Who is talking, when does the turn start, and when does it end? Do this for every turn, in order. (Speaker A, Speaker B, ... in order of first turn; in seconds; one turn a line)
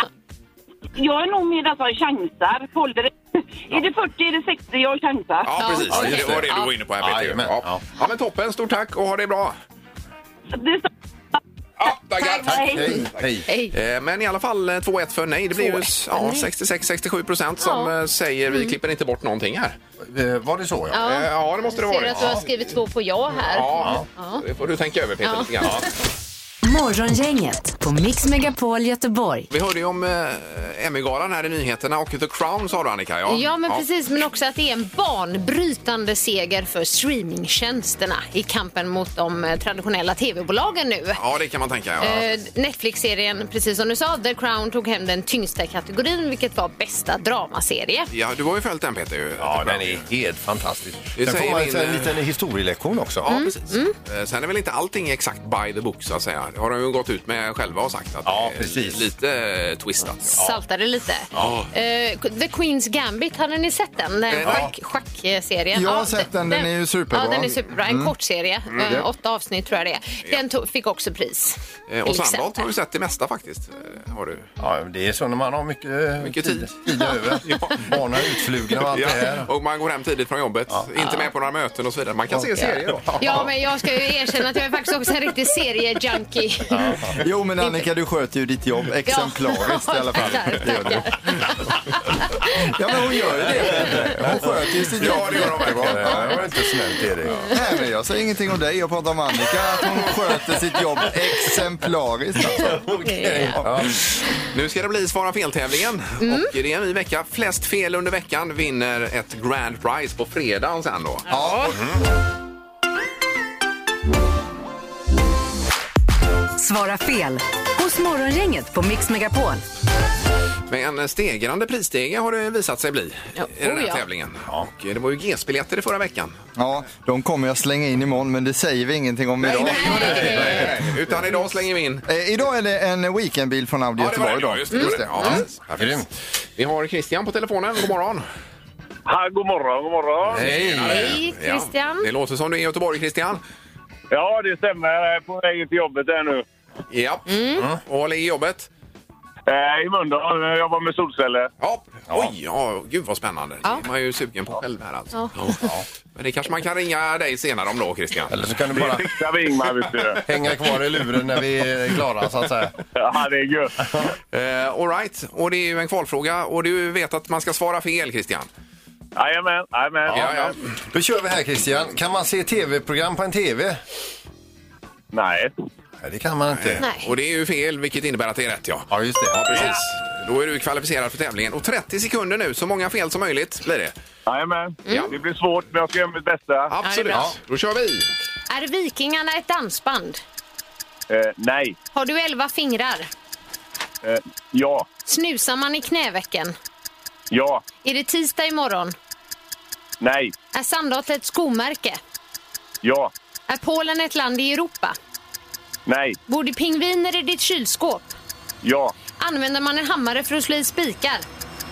Speaker A: 1.0-5.8
Speaker B: 5.5-9.6
Speaker C: 5.6-6.7
Speaker D: 5.9-7.8
Speaker A: 10.5-10.9
Speaker B: 11.8-13.1
Speaker A: 12.2-13.0
Speaker D: 12.4-13.5
Speaker C: 12.9-13.7
Speaker B: 13.7-19.8
Speaker C: 15.6-16.5
Speaker C: 17.6-17.9
Speaker D: 20.0-21.1
Speaker C: 20.9-24.4
Speaker B: 20.9-22.4
Speaker D: 22.1-22.4
Speaker B: 23.4-25.8
Speaker D: 23.8-24.1
Speaker C: 25.2-25.8
Speaker E: 26.6-29.5
Speaker B: 29.5-33.9
Speaker C: 33.3-41.2
Speaker B: 41.2-42.3
Speaker C: 42.0-48.1
Speaker B: 48.1-50.0
Speaker D: 49.4-53.3
Speaker B: 51.2-52.2
Speaker B: 53.2-60.4
Speaker C: 53.3-54.0
Speaker D: 58.2-59.1
Speaker C: 60.3-72.7
Speaker D: 61.3-61.7
Speaker B: 61.4-61.7
Speaker B: 64.3-64.7
Speaker D: 64.4-64.7
Speaker F: 65.7-68.1
Speaker B: 71.9-74.5
Speaker D: 74.6-79.5
Speaker B: 76.2-78.0
Speaker B: 78.8-83.5
Speaker C: 81.0-81.3
Speaker C: 82.5-87.0
Speaker D: 82.6-83.3
Speaker D: 86.7-87.2
Speaker F: 87.2-91.5
Speaker C: 89.1-91.4
Speaker C: 92.0-92.7
Speaker F: 92.4-96.4
Speaker D: 93.7-94.4
Speaker B: 94.9-96.4
Speaker D: 95.2-97.5
Speaker F: 97.5-102.9
Speaker D: 102.5-104.0
Speaker C: 103.0-103.6
Speaker B: 104.5-111.3
Speaker C: 106.2-106.5
Speaker C: 111.3-111.8
Speaker F: 111.3-111.8
Speaker D: 111.7-112.0
Speaker E: 116.6-119.6
Speaker B: 120.7-126.4
Speaker C: 123.4-124.0
Speaker F: 126.6-130.7
Speaker B: 129.4-132.1
Speaker C: 129.6-130.7
Speaker D: 129.8-130.8
Speaker F: 132.1-135.4
Speaker B: 134.0-138.2
Speaker C: 134.8-135.3
Speaker D: 135.2-136.1
Speaker G: 139.1-140.5
Speaker D: 140.3-141.2
Speaker B: 140.4-143.4
Speaker C: 140.8-142.1
Speaker G: 144.1-146.4
Speaker B: 146.9-148.7
Speaker C: 147.3-147.6
Speaker G: 149.5-151.5
Speaker B: 151.6-158.3
Speaker D: 152.1-152.3
Speaker D: 155.6-155.8
Speaker D: 158.3-159.1
Speaker G: 158.7-160.2
Speaker D: 160.2-162.7
Speaker G: 162.9-163.8
Speaker B: 164.3-168.5
Speaker G: 169.2-170.6
Speaker B: 170.1-170.6
Speaker D: 170.9-173.8
Speaker G: 175.1-175.5
Speaker D: 176.0-176.8
Speaker B: 176.6-183.9
Speaker C: 176.8-177.1
Speaker D: 178.9-179.8
Speaker G: 184.3-186.7
Speaker C: 184.9-185.1
Speaker B: 184.9-185.2
Speaker B: 186.7-188.1
Speaker C: 186.8-187.2
Speaker C: 188.5-190.2
Speaker G: 191.1-191.8
Speaker C: 191.9-193.1
Speaker G: 194.0-194.9
Speaker C: 195.1-196.6
Speaker G: 197.3-197.6
Speaker C: 197.8-198.9
Speaker G: 200.0-200.3
Speaker C: 200.5-202.0
Speaker G: 202.8-203.1
Speaker C: 203.5-205.0
Speaker G: 205.9-206.2
Speaker C: 206.3-208.1
Speaker G: 208.6-208.9
Speaker C: 209.2-211.2